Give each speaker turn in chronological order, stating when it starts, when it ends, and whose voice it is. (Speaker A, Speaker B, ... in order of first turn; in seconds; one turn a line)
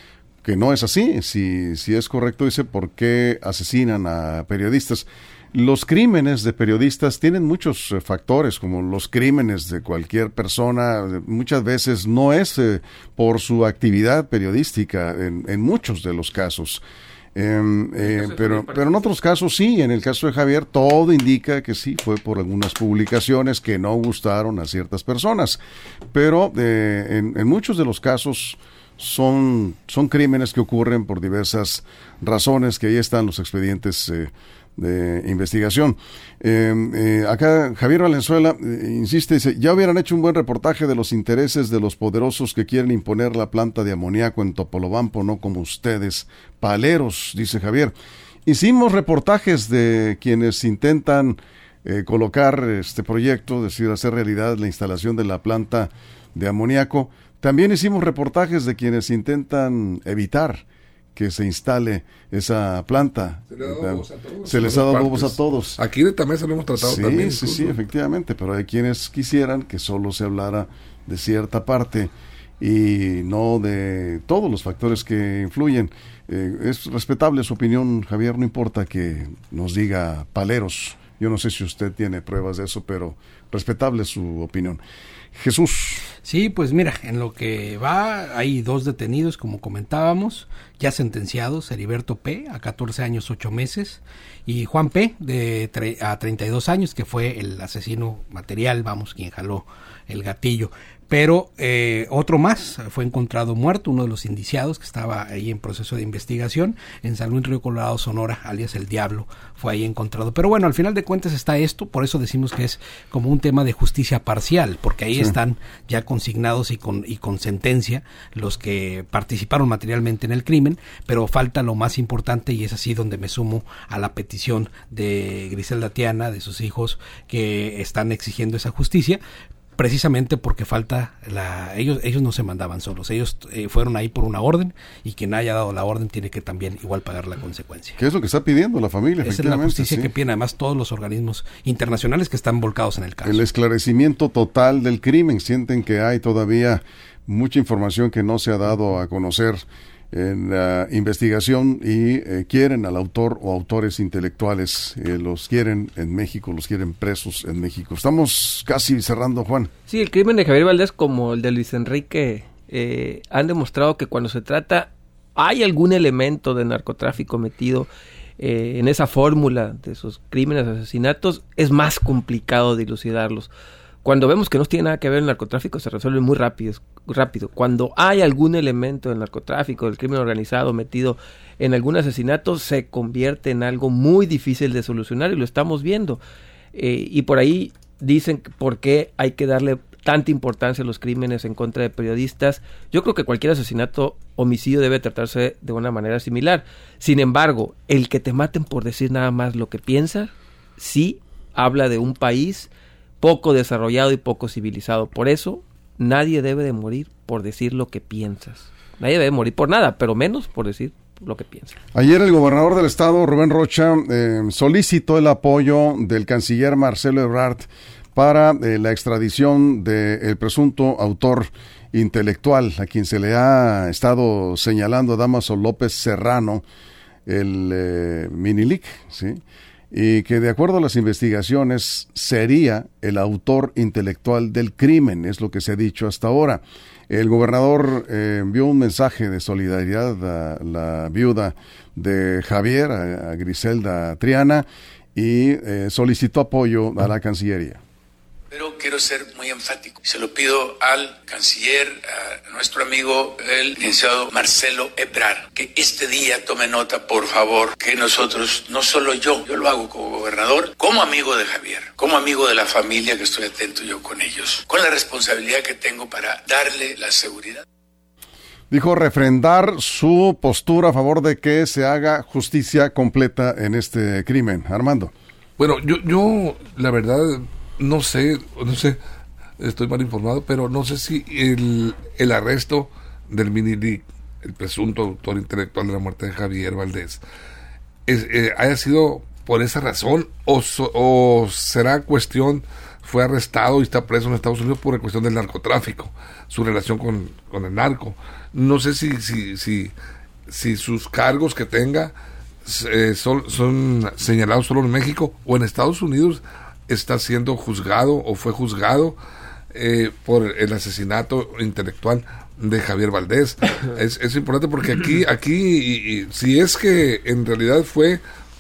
Speaker A: 0.4-16.8
Speaker A: 17.4-25.6
Speaker B: 18.0-19.0
Speaker A: 26.1-47.9
Speaker A: 48.5-65.8
Speaker C: 63.5-67.8
Speaker A: 66.8-84.8
Speaker A: 85.3-86.1
Speaker D: 86.2-129.2
Speaker D: 129.8-138.0
Speaker A: 138.0-140.1
Speaker D: 139.2-143.4
Speaker A: 143.2-159.7
Speaker B: 159.9-167.9
Speaker B: 168.4-173.5
Speaker B: 174.0-186.2
Speaker B: 186.8-202.7
Speaker B: 203.2-211.8
Speaker A: 211.9-226.6
Speaker A: 227.3-247.8
Speaker E: 248.5-267.6
Speaker A: 268.7-275.1
Speaker C: 275.6-279.0
Speaker C: 279.6-287.2
Speaker C: 288.1-299.9
Speaker C: 300.5-302.1
Speaker C: 302.6-309.2
Speaker C: 309.7-318.2